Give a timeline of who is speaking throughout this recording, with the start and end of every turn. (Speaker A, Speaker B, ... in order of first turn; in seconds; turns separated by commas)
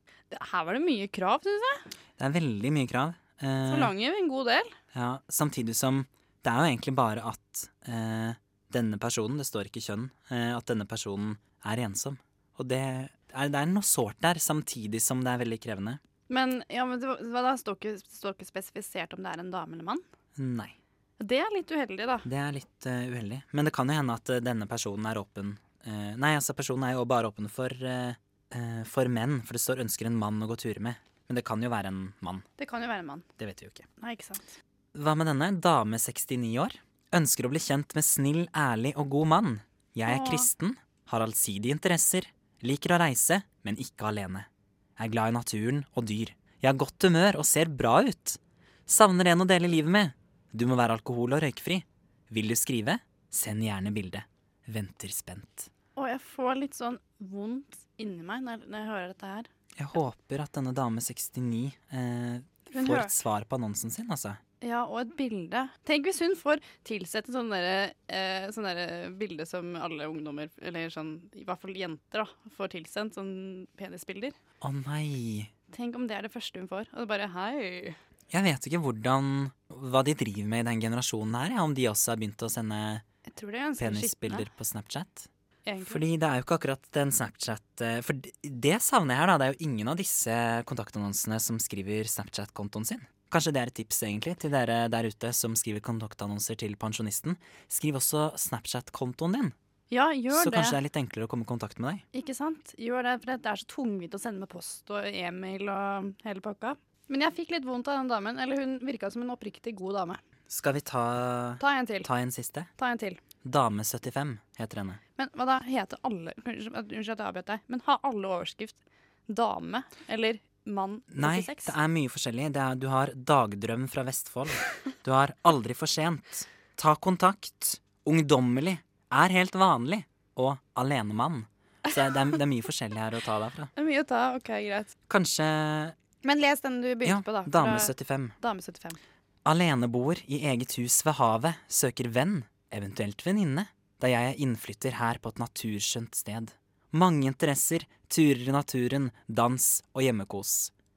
Speaker A: 0.3-1.8, Speaker B: 2.2-3.9, Speaker A: 3.7-4.7, Speaker B: 4.9-16.0, Speaker A: 16.3-20.0, Speaker B: 20.4-20.8, Speaker A: 21.2-22.2, Speaker B: 22.2-32.5, Speaker A: 32.6-33.3, Speaker B: 33.4-33.9, Speaker A: 34.0-34.5, Speaker B: 35.0-44.5, Speaker A: 40.1-40.5, Speaker B: 45.0-55.7, Speaker A: 56.0-59.5, Speaker B: 59.8-64.4, Speaker A: 62.7-63.1, Speaker A: 64.6-74.3, Speaker B: 74.6-75.5, Speaker A: 75.7-78.0, Speaker B: 78.3-83.0, Speaker A: 83.3-84.5, Speaker B: 83.8-85.3, Speaker A: 85.7-86.0, Speaker B: 85.9-99.5, Speaker A: 99.9-100.8, Speaker B: 100.3-102.0, Speaker A: 102.1-110.2, Speaker B: 110.5-112.7, Speaker A: 111.6-112.1, Speaker A: 112.8-113.2, Speaker B: 113.4-115.0, Speaker A: 115.2-118.8, Speaker A: 119.3-121.7, Speaker B: 121.1-133.7, Speaker A: 133.8-134.9, Speaker B: 135.1-135.9, Speaker A: 136.2-139.0, Speaker B: 137.0-138.3, Speaker B: 139.4-150.7